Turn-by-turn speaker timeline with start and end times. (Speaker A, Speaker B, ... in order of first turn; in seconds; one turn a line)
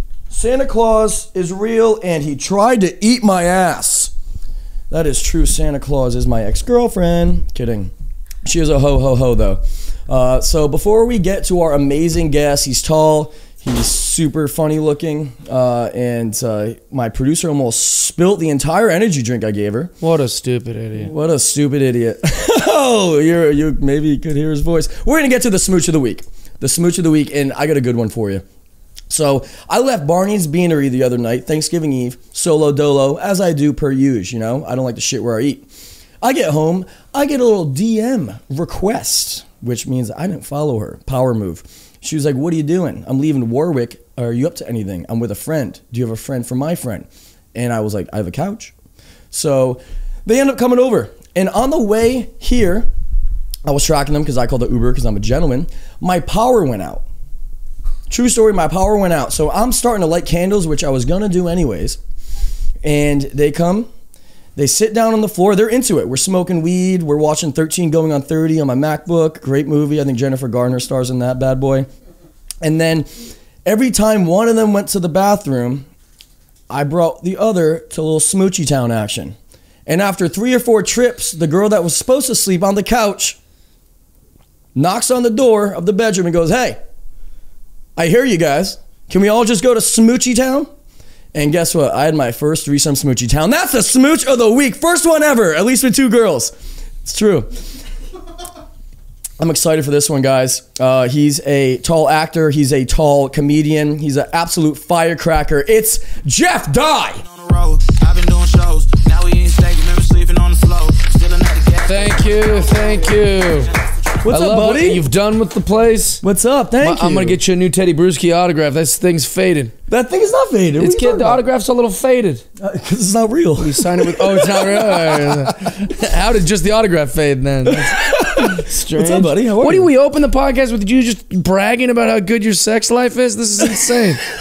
Speaker A: 0.3-4.1
Speaker A: 4.9-7.9
Speaker A: 8.4-19.9
Speaker B: 20.0-21.1
Speaker A: 21.0-28.4
Speaker A: 29.1-35.7
Speaker A: 36.2-48.7
Speaker A: 49.3-52.9
Speaker A: 53.6-57.0
Speaker A: 58.1-62.0
Speaker A: 62.8-63.9
Speaker A: 64.6-71.9
Speaker A: 72.6-73.1
Speaker A: 73.7-75.9
Speaker A: 76.7-79.3
Speaker A: 79.9-83.4
Speaker A: 84.8-86.8
Speaker A: 88.0-90.7
Speaker A: 91.3-96.5
Speaker A: 97.0-97.5
Speaker A: 99.4-107.2
Speaker C: 107.2-114.2
Speaker B: 111.9-113.7
Speaker A: 114.2-115.0
Speaker B: 114.3-116.2
Speaker A: 116.2-117.4
Speaker B: 116.8-119.7
Speaker A: 119.9-121.4
Speaker B: 120.8-122.4
Speaker A: 122.6-125.9
Speaker B: 123.6-134.2
Speaker A: 127.7-129.9